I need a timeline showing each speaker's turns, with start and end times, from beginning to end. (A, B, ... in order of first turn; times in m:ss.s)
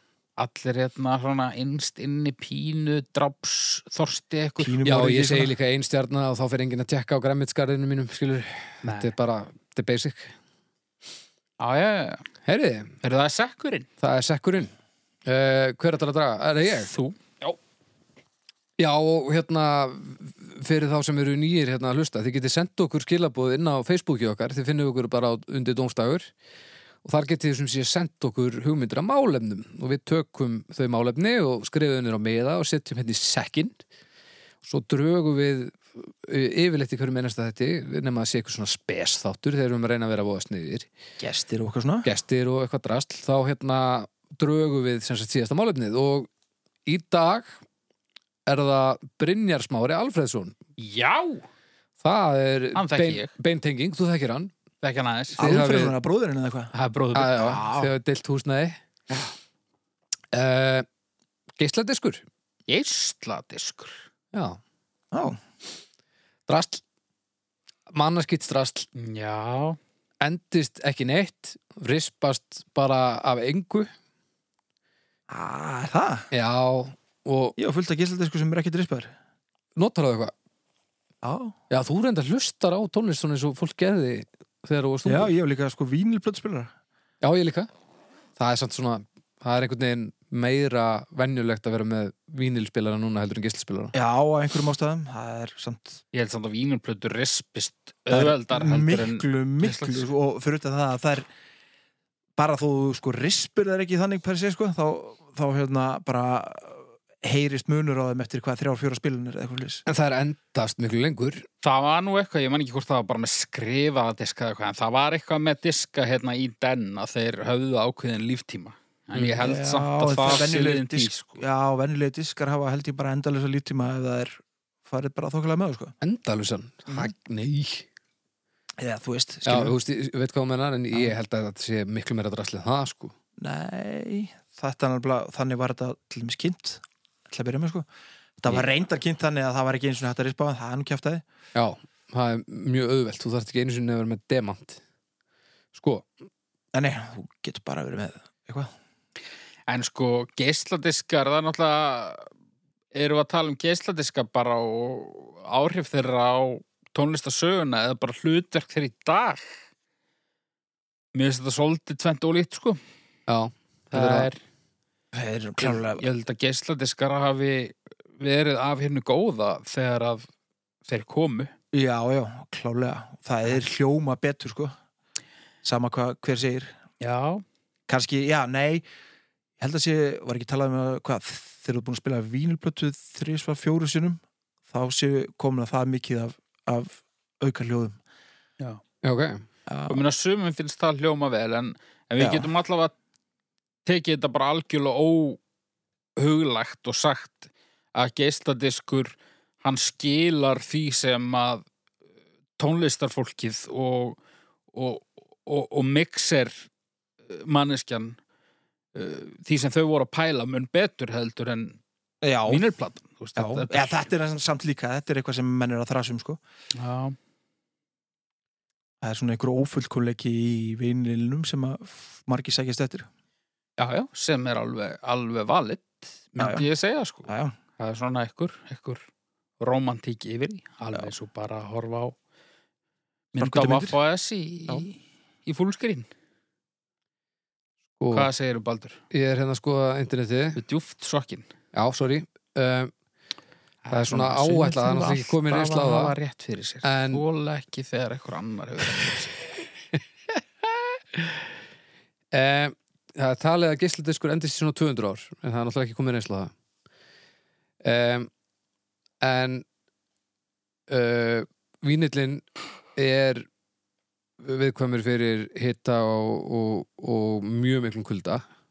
0:00.4-0:04.8 A
0:04.6-0:05.5 B
0:04.8-0:10.3 C
0:08.8-0:09.1 A
0:11.6-0:12.2 A
0:12.4-0:12.9 C
0:13.0-0:13.9 A
0:14.0-0:14.7 C
0:15.2-0:16.9 C
0:16.7-0:17.6 A
0:18.8-0:26.3 C
0:27.0-0:33.8 C
0:34.6-0:40.9 C
0:41.2-0:42.1 B
0:42.0-0:46.3 C
0:46.9-0:47.6 C
0:48.5-0:50.6 C
0:50.8-0:51.4 A
0:52.0-0:54.5 C
0:52.8-0:53.3 A
0:54.8-0:55.4 A
0:55.4-0:56.0 C
0:55.4-0:56.7 B
0:56.7-0:57.6 A
0:57.1-0:58.8 C
0:57.4-0:57.9 B
1:00.3-1:00.9 C
1:01.6-1:02.2 C
1:02.7-1:04.0 A
1:04.3-1:04.6 C
1:05.1-1:05.4 B
1:06.5-1:06.8 C
1:07.9-1:08.9 C
1:09.0-1:09.8 A
1:10.2-1:13.9 C
1:15.3-1:16.3 B
1:16.3-1:17.6 C
1:17.6-1:19.1 B
1:19.8-1:20.3 C
1:21.2-1:21.6 B
1:21.7-1:25.3 C
1:25.1-1:26.7 B
1:27.2-1:27.7 C
1:28.4-1:33.9 C
1:33.9-1:36.0 B
1:36.1-1:40.1 A
1:38.1-1:41.3 B
1:42.4-1:49.8 B
1:49.9-1:51.5 C
1:51.6-2:01.4 A
1:59.4-2:05.9 B
2:06.0-2:07.9 C
2:08.8-2:09.8 B
2:09.5-2:13.1 C
2:13.4-2:17.9 B
2:18.4-2:21.2 B
2:21.6-2:24.8 C
2:25.7-2:26.1 C
2:26.7-2:28.7 B
2:29.7-2:32.3 A
2:32.9-2:39.6 A
2:41.1-2:42.8 A
2:43.3-2:44.3 C
2:43.9-2:44.4 A
2:45.1-2:46.0 B
2:45.6-2:50.3 A
2:50.9-2:51.5 A
2:51.7-2:54.8 B
2:55.6-2:56.8 B
2:57.0-2:57.4 A
2:57.9-2:58.8 B
2:59.6-3:08.0 B
3:09.0-3:09.4 C
3:09.7-3:10.0 B
3:09.9-3:12.9 A
3:12.2-3:12.5 B
3:13.9-3:15.4 A
3:16.2-3:21.6 A
3:22.6-3:24.2 A
3:24.7-3:26.7 A
3:27.3-3:28.2 A
3:28.9-3:31.8 A
3:32.2-3:32.6 B
3:32.5-3:34.1 A
3:33.4-3:36.4 B
3:36.8-3:37.2 A
3:39.0-3:43.1 B
3:43.8-3:49.0 A
3:46.4-3:46.7 B
3:47.3-3:47.5 B
3:49.6-3:52.2 A
3:53.3-3:56.1 A
3:53.4-3:54.0 B
3:58.0-3:58.3 C
3:58.1-3:59.0 A
3:59.1-4:00.6 C
4:00.6-4:01.5 A
4:01.7-4:02.9 C
4:03.8-4:09.3 A
4:03.9-4:06.2 C
4:06.8-4:07.2 C
4:11.1-4:11.4 C
4:12.3-4:16.5 C
4:17.8-4:18.3 C
4:19.2-4:19.7 C
4:20.9-4:22.4 C
4:23.0-4:23.5 C
4:24.4-4:28.4 C